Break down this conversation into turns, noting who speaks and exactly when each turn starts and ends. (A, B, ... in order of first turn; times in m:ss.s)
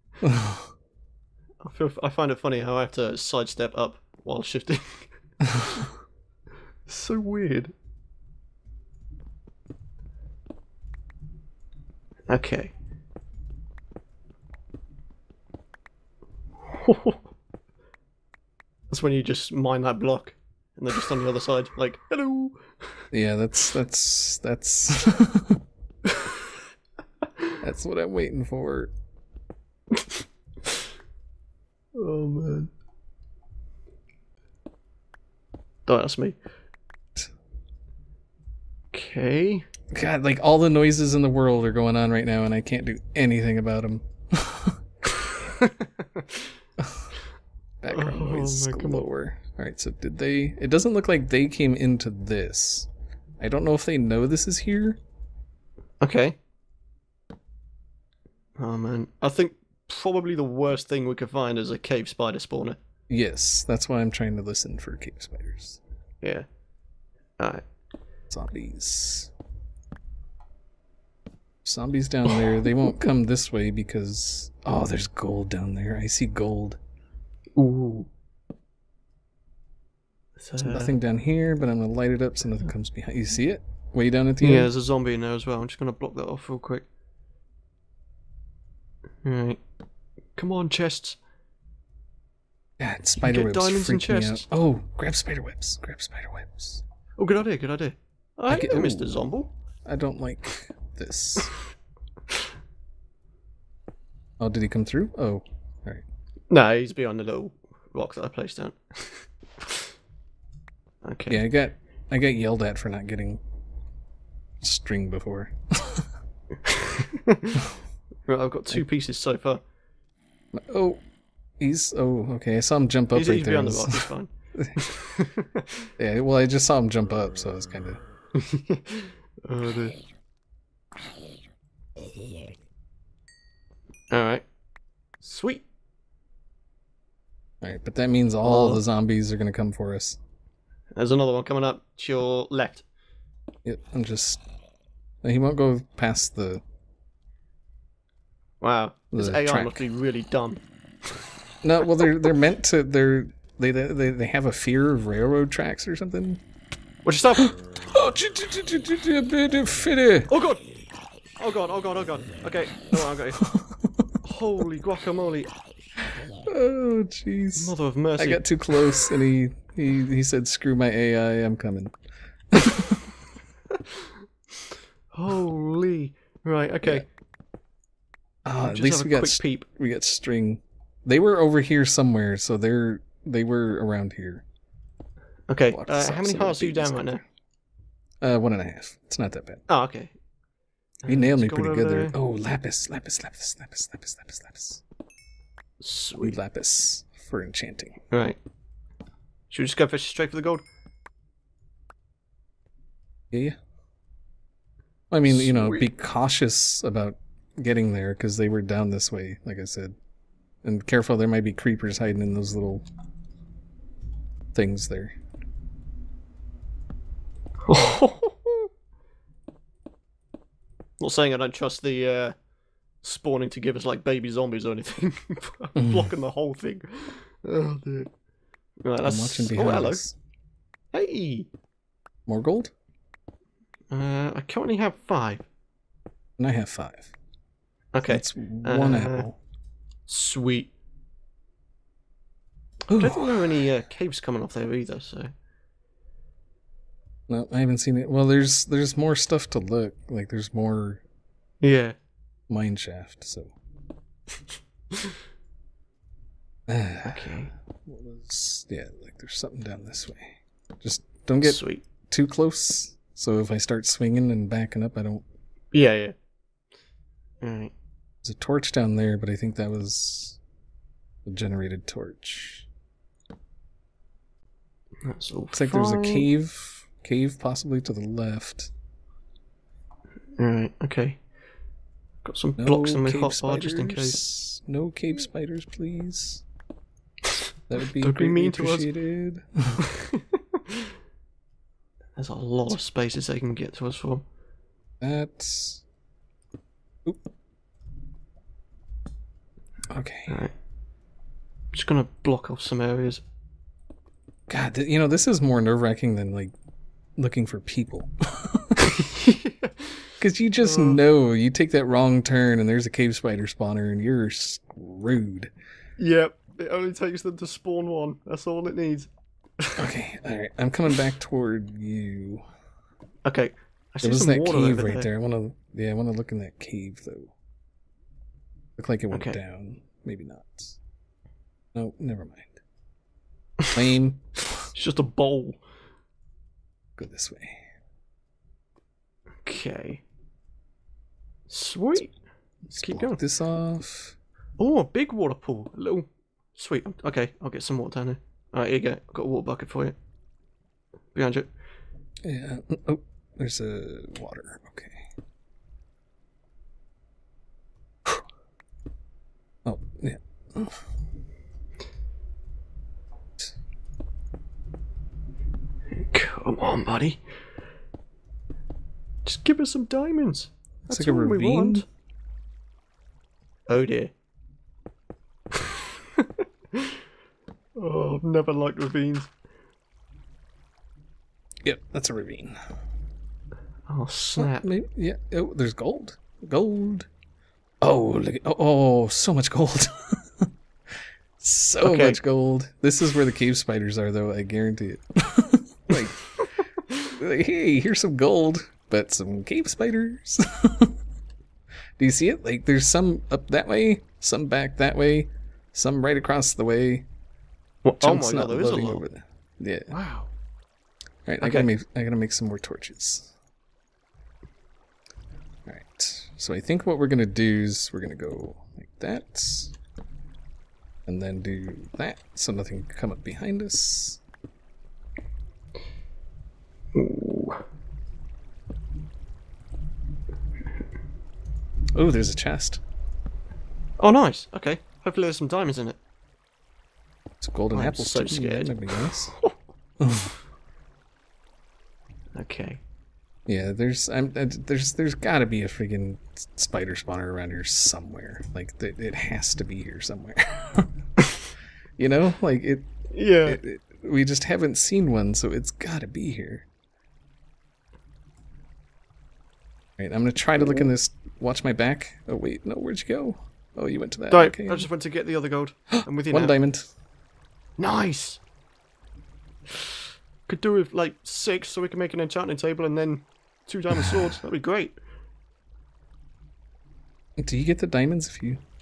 0:00.2-0:00.7 A
0:01.6-0:05.1 B
0:05.6-0:05.9 B
0:06.9-0:07.7 B
0:12.3-0:12.7 B
0:16.8-0:17.2 B
0:18.9-0:22.8 B
0:23.1-0:25.6 A
0:26.1-0:26.4 B
0:27.6-0:28.9 A
0:29.9-0:30.8 B
0:32.0-0:32.7 B
0:35.9-0:36.4 B
0:38.9-0:39.7 B
0:39.9-0:44.8 A
0:45.2-0:46.5 B
0:46.8-0:47.1 A
0:47.8-0:52.9 A
0:47.9-0:49.1 B
0:53.4-0:55.0 A
0:56.0-0:56.4 B
0:58.6-1:02.8 B
1:03.1-1:05.8 A
1:08.3-1:09.3 A
1:11.6-1:16.8 A
1:17.6-1:18.1 B
1:20.4-1:21.0 B
1:20.6-1:24.7 A
1:24.4-1:26.9 B
1:29.2-1:29.6 B
1:30.4-1:31.2 B
1:32.8-1:36.8 A
1:33.2-1:34.5 B
1:37.2-1:39.5 B
1:38.5-1:39.2 A
1:39.8-1:41.5 A
1:44.4-1:46.0 A
1:46.5-1:49.9 B
1:51.0-1:51.4 B
1:51.3-1:53.4 A
1:54.6-1:56.1 A
1:56.6-1:57.6 B
1:58.3-1:59.6 B
2:00.5-2:01.0 A
2:01.6-2:04.9 A
2:03.1-2:05.9 B
2:06.0-2:08.0 A
2:08.4-2:10.0 B
2:14.1-2:14.5 B
2:15.2-2:15.6 B
2:17.6-2:20.2 A
2:18.4-2:18.8 B
2:21.0-2:22.8 B
2:23.6-2:24.4 A
2:25.2-2:26.6 A
2:28.6-2:30.6 B
2:29.1-2:29.8 A
2:31.6-2:36.4 A
2:37.0-2:37.5 B
2:37.4-2:40.3 A
2:40.3-2:40.6 B
2:41.4-2:43.4 B
2:43.4-2:43.9 A
2:44.2-2:45.5 B
2:46.5-2:51.9 A
2:47.6-2:48.4 B
2:52.5-2:53.0 A
2:53.8-2:54.1 B
2:55.1-2:57.0 B
2:58.4-3:04.4 A
2:58.6-2:59.7 B
3:05.5-3:07.2 B
3:05.7-3:07.1 A
3:08.2-3:09.6 A
3:09.7-3:10.1 B
3:11.0-3:12.2 B
3:11.1-3:14.8 A
3:15.8-3:16.4 B
3:16.2-3:18.0 A
3:18.1-3:18.4 B
3:19.5-3:20.6 B
3:25.1-3:29.9 A
3:25.3-3:25.9 B
3:30.6-3:32.8 A
3:34.5-3:35.2 A
3:37.7-3:38.7 B
3:41.0-3:42.3 B
3:43.0-3:48.1 B
3:48.8-3:50.0 B
3:49.0-3:50.2 A
3:50.9-3:51.5 B
3:52.3-3:52.7 A
3:53.9-3:55.5 B
3:56.4-3:57.1 A
3:57.9-3:59.3 B
3:58.1-3:59.4 A
4:00.1-4:00.7 B
4:02.9-4:03.6 A
4:02.9-4:05.3 B
4:07.3-4:11.0 A
4:11.6-4:12.0 B
4:12.5-4:13.5 A
4:16.7-4:25.2 A
4:17.0-4:17.5 B
4:21.4-4:21.8 B
4:25.7-4:26.1 B
4:27.4-4:27.7 B
4:28.2-4:30.4 A
4:31.2-4:32.7 A
4:35.0-4:36.3 B
4:35.5-4:38.7 A
4:40.4-4:41.2 B
4:42.2-4:44.2 B
4:42.6-4:46.4 A
4:47.3-4:48.9 B
4:47.7-4:49.8 A
4:49.8-4:50.8 B
4:52.2-4:54.2 B
4:55.0-4:55.8 A
4:59.9-5:00.4 A
5:00.3-5:00.5 B
5:01.7-5:03.2 B
5:04.5-5:06.5 A
5:07.2-5:08.8 A
5:08.9-5:10.1 B
5:10.2-5:15.5 A
5:10.6-5:11.0 B
5:16.0-5:19.1 B
5:19.8-5:22.4 A
5:23.2-5:25.1 B
5:24.0-5:27.3 A
5:28.8-5:30.8 A
5:29.1-5:29.4 B
5:31.8-5:32.6 A
5:33.7-5:34.6 A
5:34.7-5:35.6 B
5:37.0-5:37.6 A
5:39.4-5:40.0 B
5:41.5-5:42.2 B
5:42.7-5:44.2 A
5:42.8-5:43.2 B
5:44.6-5:50.0 B
5:51.2-5:51.5 B
5:52.2-5:55.1 A
5:59.6-6:00.8 A
6:06.0-6:07.2 B
6:09.2-6:11.8 B
6:10.9-6:11.8 A
6:13.7-6:14.1 B
6:15.6-6:17.0 B
6:17.8-6:19.3 B
6:21.6-6:22.6 A
6:23.9-6:24.6 B
6:24.4-6:27.1 A
6:27.8-6:30.4 A
6:31.4-6:36.2 A
6:31.8-6:32.2 B
6:37.2-6:41.0 A
6:42.0-6:47.1 A
6:47.8-6:49.0 B
6:48.0-6:49.9 A
6:49.9-6:50.3 B
6:51.3-6:53.3 A
6:51.4-6:51.7 B
6:55.7-6:59.8 A
7:01.1-7:04.2 A
7:07.0-7:07.6 B
7:11.9-7:12.8 A
7:14.0-7:16.0 B
7:17.4-7:19.3 A
7:17.7-7:19.5 B
7:20.0-7:20.4 A
7:22.4-7:22.8 B
7:23.5-7:30.9 A
7:32.0-7:32.9 A
7:33.1-7:33.6 B
7:33.4-7:36.7 A
7:40.0-7:44.9 A
7:44.3-7:46.6 B
7:46.0-7:46.9 A
7:47.8-7:48.4 B
7:50.5-7:55.0 B
7:53.9-7:54.2 A
7:57.4-7:58.6 A